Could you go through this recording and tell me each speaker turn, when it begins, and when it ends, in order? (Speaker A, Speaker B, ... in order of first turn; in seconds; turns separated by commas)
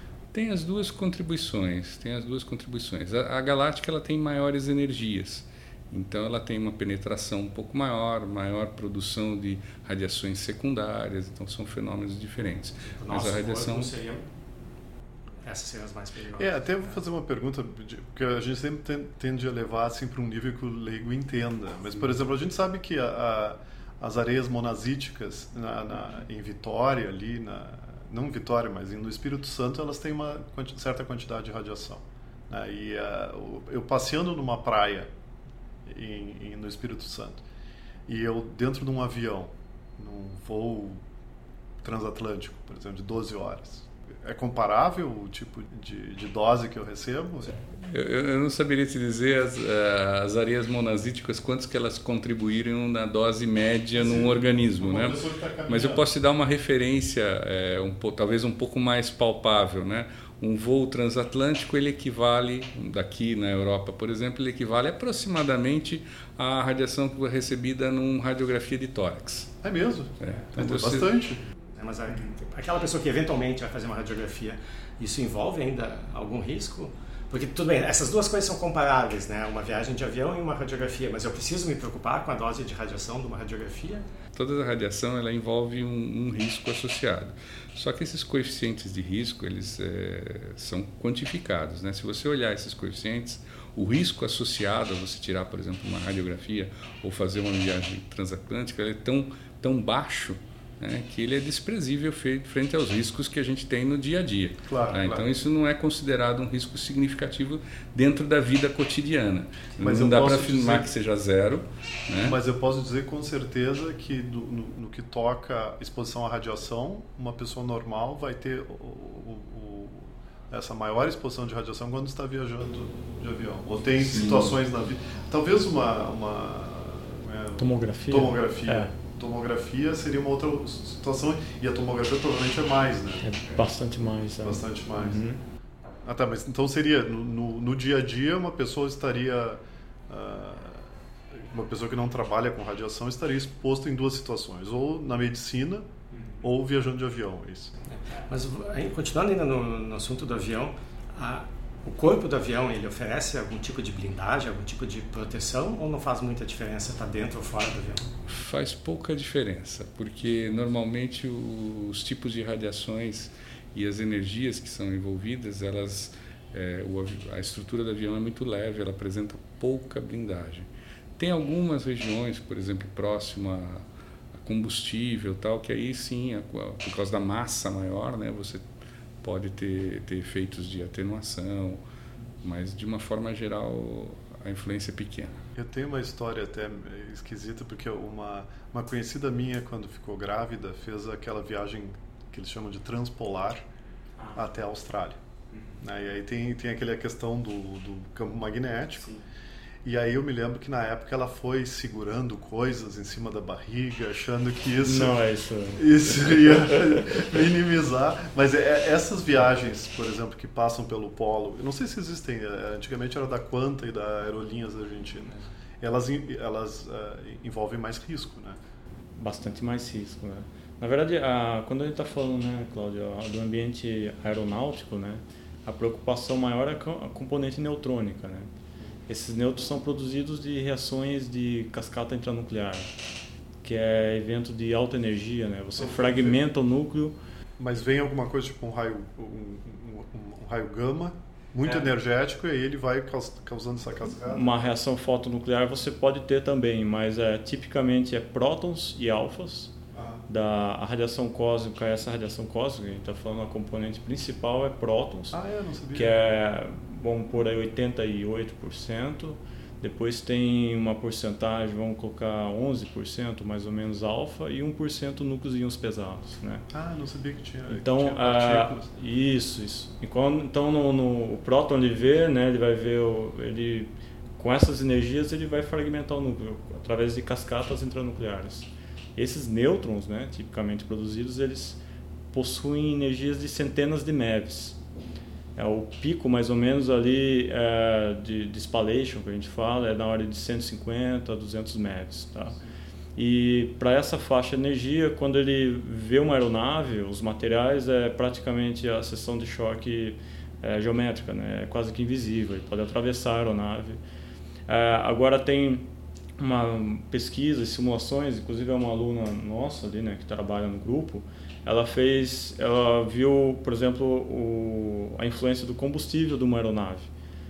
Speaker A: 0.3-13.9, Speaker B: 12.8-14.3, Speaker B: 15.4-16.9, Speaker C: 16.4-35.1, Speaker C: 35.8-37.4, Speaker C: 38.1-41.0, Speaker C: 41.8-47.6, Speaker A: 47.7-69.5, Speaker C: 53.9-56.0, Speaker C: 69.6-71.4, Speaker A: 70.2-71.1, Speaker B: 71.7-84.0, Speaker A: 84.3-112.4, Speaker C: 104.7-105.3, Speaker C: 109.8-110.9, Speaker C: 112.2-133.3, Speaker A: 124.0-124.5, Speaker D: 127.6-128.9, Speaker D: 133.2-135.4, Speaker C: 134.4-135.2, Speaker C: 136.0-145.9, Speaker C: 146.4-147.7, Speaker B: 147.9-158.1, Speaker A: 158.3-178.7, Speaker A: 179.2-181.8, Speaker A: 182.4-185.4, Speaker C: 185.5-193.7, Speaker D: 194.2-194.4, Speaker C: 194.3-195.2, Speaker D: 195.5-195.8, Speaker C: 195.8-199.1, Speaker C: 199.8-205.2, Speaker D: 204.8-205.9, Speaker C: 205.7-218.6, Speaker D: 219.2-228.5, Speaker D: 229.1-232.9, Speaker D: 233.6-237.2, Speaker C: 235.8-236.4, Speaker C: 237.6-244.5, Speaker D: 244.3-249.7, Speaker C: 249.9-250.2, Speaker D: 250.3-255.4, Speaker C: 255.3-256.2, Speaker D: 255.9-266.6, Speaker C: 266.7-268.9, Speaker D: 267.7-281.8, Speaker D: 282.3-284.8, Speaker D: 285.6-292.6, Speaker D: 293.1-304.0, Speaker D: 304.7-305.9, Speaker D: 306.4-317.1